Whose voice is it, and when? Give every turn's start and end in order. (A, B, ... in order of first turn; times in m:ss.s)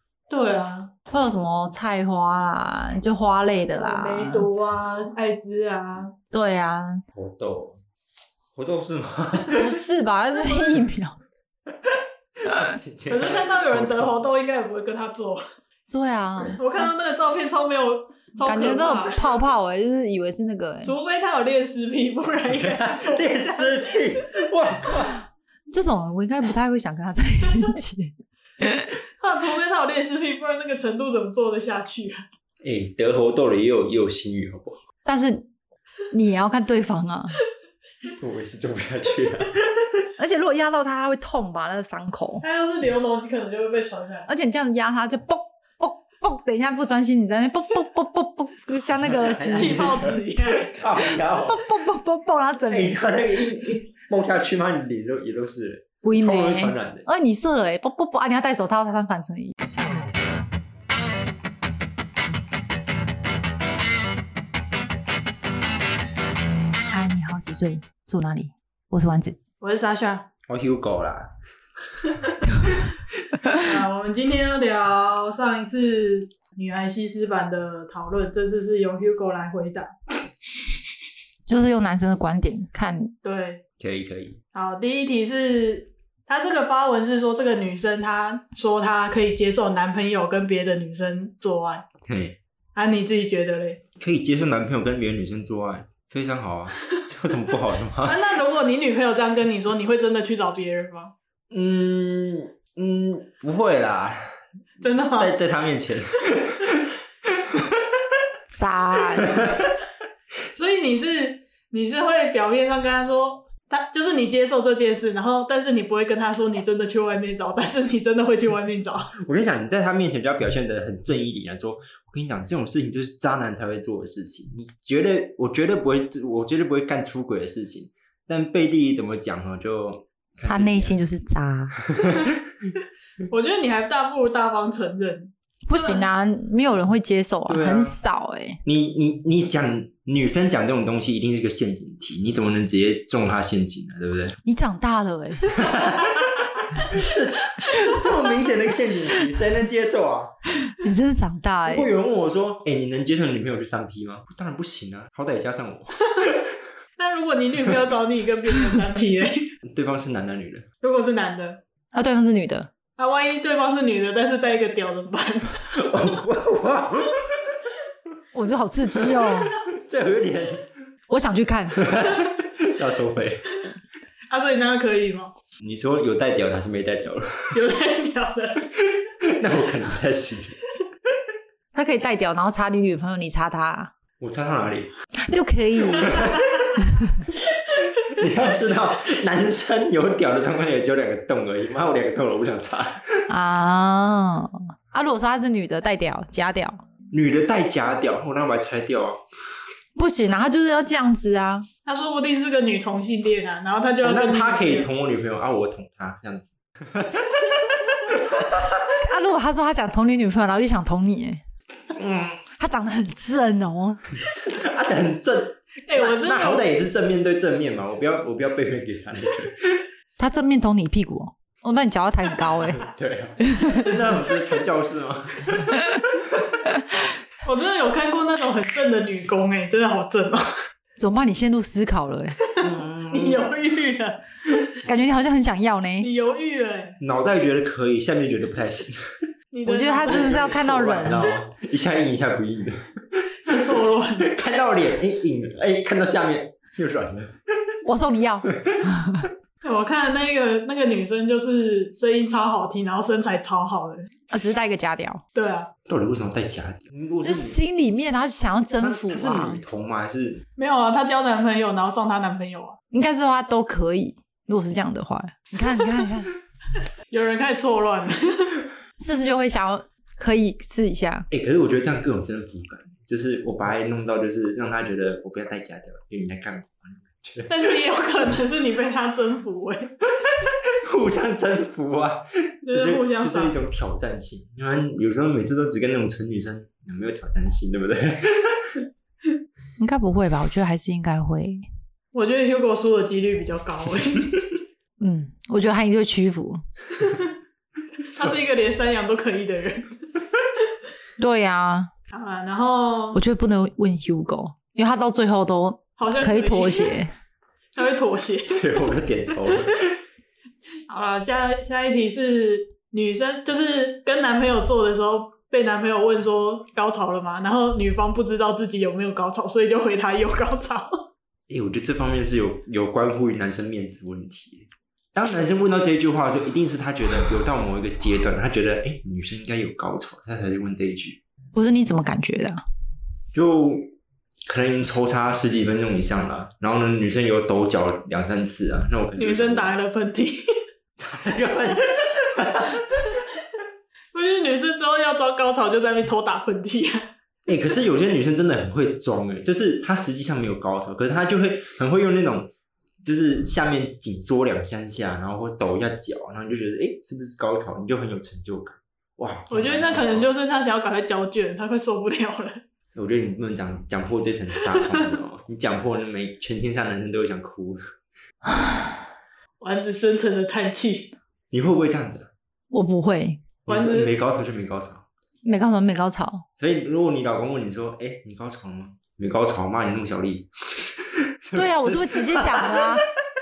0:00.3-0:00.9 A
0:01.1-0:04.5 B
0:03.8-0:06.1 A
0:06.3-0:07.0 B
0:07.1-0:07.8 C
0:08.6-0:09.8 C
0:09.6-0:11.2 B
0:11.9-0:14.1 C
0:13.1-0:15.4 A
0:15.9-0:16.9 B
0:16.6-0:19.4 A
0:18.4-0:20.9 B
0:20.8-0:24.2 A
0:22.5-0:25.3 C
0:25.7-0:28.9 B
0:29.2-0:32.2 A
0:32.6-0:34.8 C
0:35.0-0:35.5 B
0:36.1-0:37.4 B
0:38.2-0:40.0 C
0:40.2-0:42.4 B
0:42.4-0:44.3 A
0:44.3-0:50.0 B
0:49.0-0:51.7 C
0:49.4-0:50.7 A
0:51.5-0:53.0 B
0:52.7-0:57.1 C
0:56.0-0:59.5 B
1:06.9-1:09.4 B
1:09.6-1:10.3 A
1:10.5-1:11.3 C
1:13.6-1:19.9 A
1:21.5-1:23.1 B
1:23.2-1:23.6 A
1:23.8-1:24.4 C
1:24.5-1:31.9 A
1:32.0-1:32.4 C
1:32.8-1:33.8 A
1:34.0-1:38.2 C
1:38.0-1:41.1 A
1:41.5-1:44.4 C
1:44.8-1:45.4 A
1:45.2-1:47.9 C
1:48.5-1:49.4 B
1:49.3-1:49.7 C
1:50.6-1:59.1 A
1:59.2-2:11.0 C
2:10.4-2:11.8 B
2:11.9-2:12.7 C
2:13.3-2:16.1 A
2:15.7-2:18.6 B
2:17.5-2:18.0 C
2:18.6-2:24.4 C
2:24.4-2:25.7 B
2:25.5-2:30.3 C
2:27.6-2:27.9 A
2:30.8-2:31.9 B
2:31.7-2:36.5 C
2:37.0-2:39.5 A
2:39.6-2:40.7 C
2:40.8-2:41.6 A
2:41.9-2:42.7 B
2:43.0-2:45.8 A
2:45.8-2:47.6 C
2:48.3-2:49.5 B
2:49.7-2:50.7 C
2:51.1-2:51.9 B
2:51.8-2:53.6 C
2:54.3-2:55.3 A
2:55.6-2:57.6 C
2:57.5-2:58.7 A
2:58.8-3:00.6 C
3:01.7-3:03.9 B
3:04.2-3:04.9 C
3:05.2-3:06.2 B
3:06.0-3:06.4 C
3:06.8-3:07.1 B
3:08.1-3:13.2 C
3:13.3-3:16.8 B
3:17.1-3:19.2 C
3:20.0-3:21.7 B
3:21.9-3:24.9 A
3:24.0-3:29.0 C
3:29.0-3:31.4 B
3:31.9-3:32.4 C
3:32.5-3:34.1 B
3:34.1-3:39.8 C
3:35.9-3:36.6 A
3:40.2-3:42.8 B
3:42.7-3:46.6 C
3:43.4-3:43.9 B
3:47.4-3:50.5 A
3:51.0-3:52.4 B
3:52.6-3:54.7 A
3:52.6-3:53.5 C
3:54.8-3:56.1 B
3:56.0-3:57.0 A
3:57.0-3:59.1 C
3:59.5-4:01.3 A
3:59.7-4:01.2 B
4:00.0-4:03.6 C
4:03.5-4:04.3 A
4:04.2-4:07.4 C
4:07.8-4:09.3 B
4:09.6-4:14.1 A
4:14.3-4:15.2 B
4:15.4-4:15.7 A
4:15.9-4:17.6 C
4:17.2-4:19.6 B
4:18.8-4:20.4 C
4:20.6-4:22.8 A
4:22.9-4:26.3 B
4:27.1-4:28.6 A
4:29.0-4:31.3 B
4:31.3-4:37.5 C
4:37.5-4:40.0 A
4:40.7-4:48.7 C
4:42.7-4:43.6 A
4:49.8-4:51.6 B
4:52.1-4:54.4 A
4:55.0-4:56.6 B
4:57.0-4:57.3 A
4:58.1-5:00.1 A
5:01.2-5:01.9 B
5:02.1-5:03.2 A
5:03.1-5:07.1 B
5:06.0-5:07.0 A
5:07.8-5:08.7 A
5:08.5-5:09.9 C
5:10.9-5:21.0 A
5:21.5-5:31.2 C
5:31.5-5:32.6 B
5:33.3-5:33.8 C
5:34.5-5:39.8 C
5:39.2-5:40.4 A
5:41.0-5:43.2 C
5:44.1-5:47.1 A
5:47.5-5:52.5 C
5:53.0-6:00.3 C
5:59.5-6:02.6 A
6:03.0-6:07.9 C
6:04.8-6:05.1 A
6:09.6-6:11.1 A
6:11.5-6:12.3 C
6:12.7-6:13.4 B
6:13.7-6:15.0 C
6:13.7-6:14.1 A
6:15.4-6:16.5 B
6:16.6-6:23.1 C
6:21.6-6:23.1 B